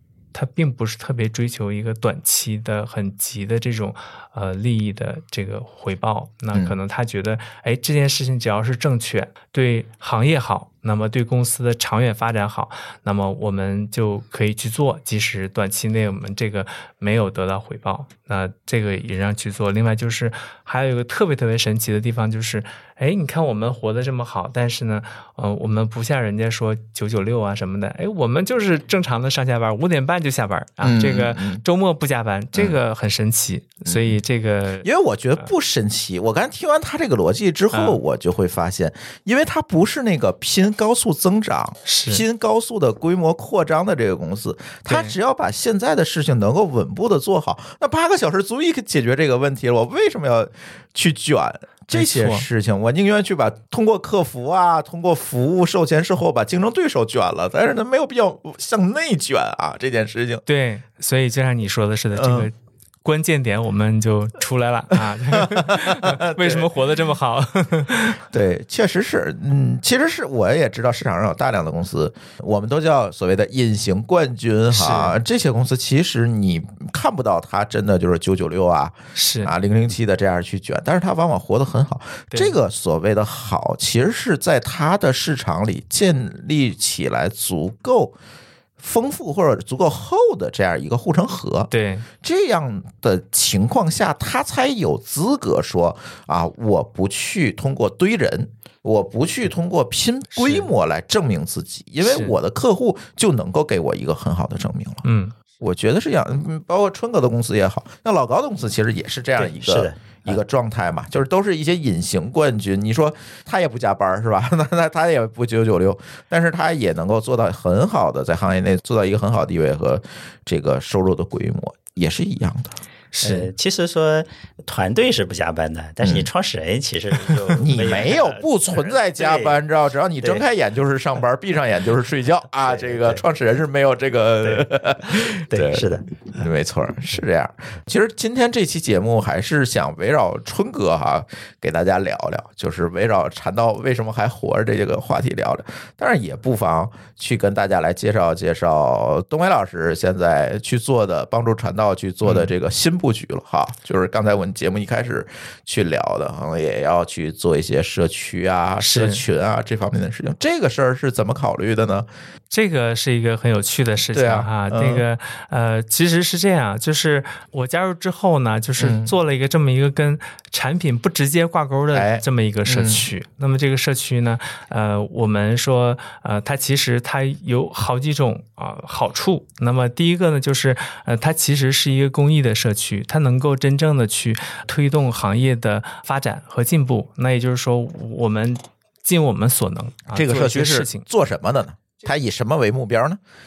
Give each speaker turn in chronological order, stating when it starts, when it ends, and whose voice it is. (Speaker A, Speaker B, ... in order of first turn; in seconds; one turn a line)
Speaker A: 0.3-34.9
Speaker B: 30.8-31.6
Speaker B: 33.9-34.2
Speaker B: 34.8-60.4
Speaker A: 37.7-38.0
Speaker A: 41.9-42.2
Speaker A: 44.9-45.1
Speaker A: 51.9-52.5
Speaker A: 60.5-68.2
Speaker B: 62.1-62.5
Speaker B: 65.3-66.7
Speaker B: 68.3-88.1
Speaker A: 74.7-75.1
Speaker A: 79.1-79.5
Speaker B: 88.8-91.7
Speaker A: 91.7-92.1
Speaker B: 92.2-105.0
Speaker A: 100.4-100.7
Speaker A: 102.0-102.4
Speaker A: 105.0-105.3
Speaker B: 105.6-122.8
Speaker C: 109.4-110.4
Speaker A: 123.1-123.5
Speaker C: 123.2-129.6
Speaker B: 126.0-126.3
Speaker B: 127.4-162.1
Speaker C: 132.7-133.2
Speaker C: 134.4-136.1
Speaker A: 158.8-159.2
Speaker A: 162.5-191.0
Speaker B: 164.1-165.0
Speaker B: 168.8-169.1
Speaker B: 171.9-173.1
Speaker B: 190.1-193.2